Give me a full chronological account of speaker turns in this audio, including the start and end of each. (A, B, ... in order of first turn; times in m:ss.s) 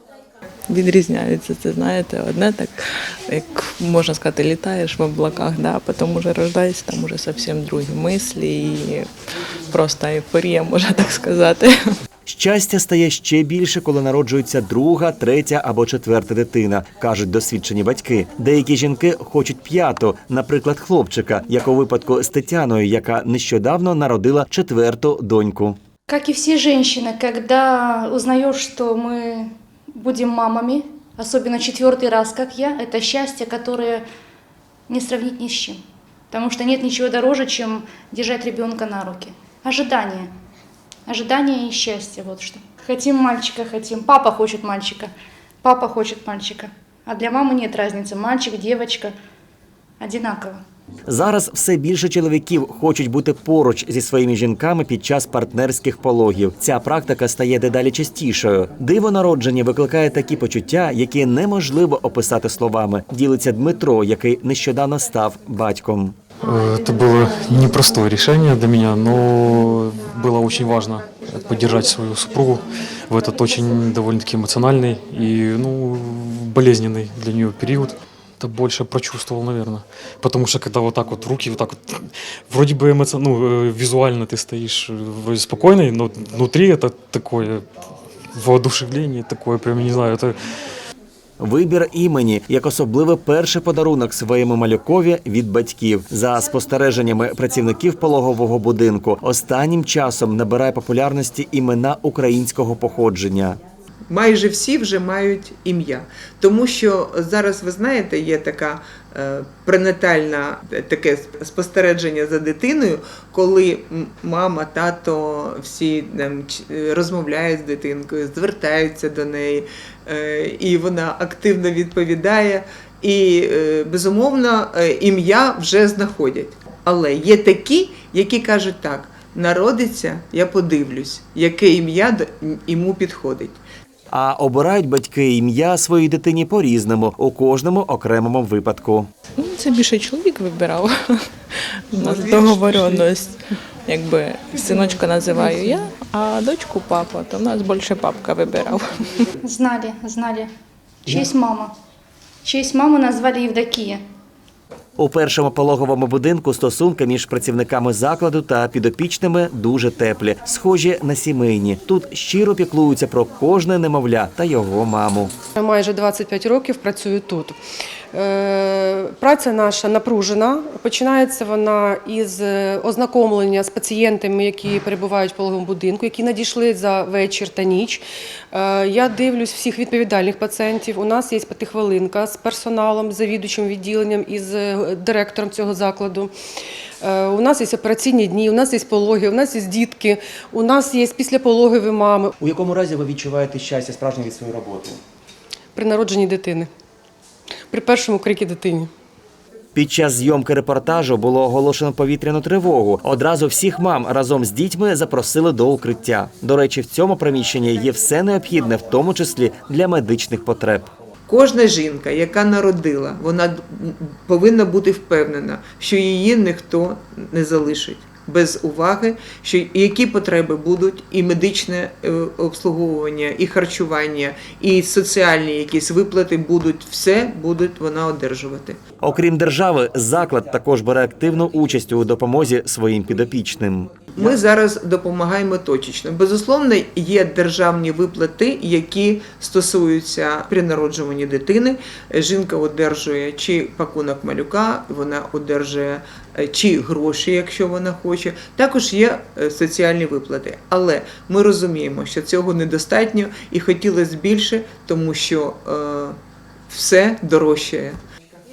0:00.7-0:09.1 A
0:09.7-0:11.7 A
0:12.3-0:25.8 B
0:26.1-0:29.5 C
0:27.6-0:28.7 D
0:30.0-0:34.0 C
0:31.6-0:33.8 D
0:34.9-0:35.8 C
0:35.1-0:35.7 D
0:36.3-0:39.1 D
0:36.4-0:40.3 C
0:39.7-0:40.2 D
0:41.1-0:45.1 C
0:41.1-0:44.0 D
0:45.6-0:49.1 C
0:46.1-0:46.6 D
0:47.2-0:48.0 D
0:50.0-0:50.6 C
0:50.2-0:50.4 D
0:51.1-1:06.2 B
1:06.4-1:27.6 E
1:28.4-1:30.3 E
1:31.4-1:43.6 B
1:44.1-2:13.6 C
2:14.1-2:19.1 B
2:19.4-2:20.9 A
2:21.9-2:23.4 A
2:21.9-2:23.0 C
2:23.9-2:28.8 A
2:29.5-2:30.5 D
2:31.1-2:31.5 C
2:31.4-2:31.7 D
2:32.4-2:34.0 D
2:35.0-2:45.3 B
2:45.6-2:47.6 F
2:48.1-3:06.3 F
3:07.0-3:12.3 F
3:12.4-3:15.0 B
3:15.8-3:16.7 F
3:17.7-3:18.9 F
3:19.8-3:30.9 B
3:31.3-3:48.8 C
3:49.0-3:54.3 B
3:54.2-4:16.2 C
4:16.7-4:18.0 C